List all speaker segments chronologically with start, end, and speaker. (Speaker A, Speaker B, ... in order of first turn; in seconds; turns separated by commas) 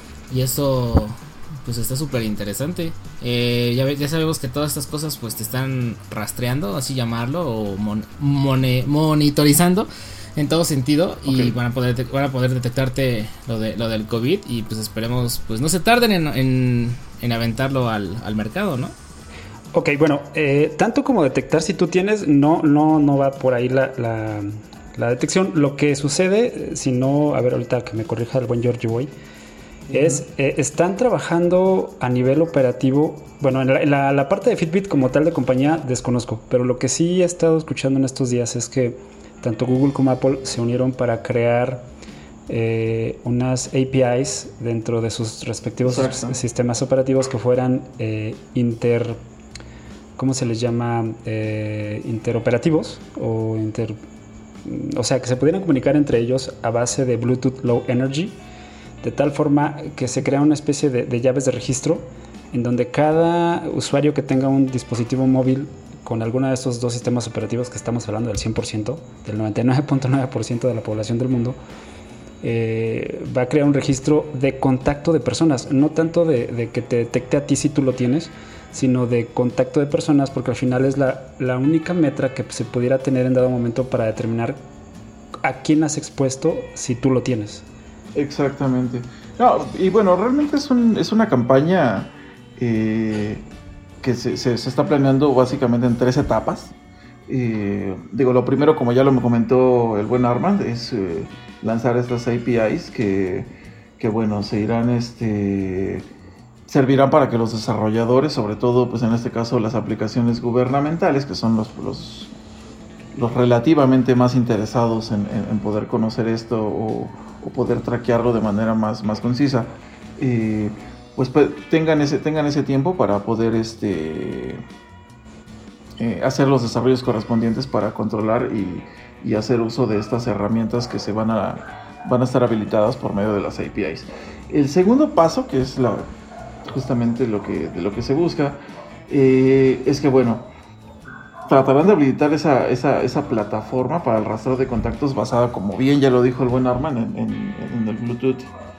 Speaker A: 0.3-18.9, Speaker B: 19.7-29.1, Speaker B: 29.9-41.9, Speaker C: 29.9-30.2, Speaker B: 42.5-49.2, Speaker C: 45.8-46.4, Speaker B: 50.1-54.0, Speaker B: 54.6-58.4, Speaker B: 59.0-71.6, Speaker B: 72.4-84.6, Speaker B: 85.4-87.6, Speaker C: 88.1-93.5, Speaker C: 94.0-96.7, Speaker C: 97.3-106.1, Speaker C: 106.7-112.3, Speaker C: 113.1-124.6, Speaker C: 126.0-136.1, Speaker C: 136.7-140.5, Speaker C: 141.5-148.5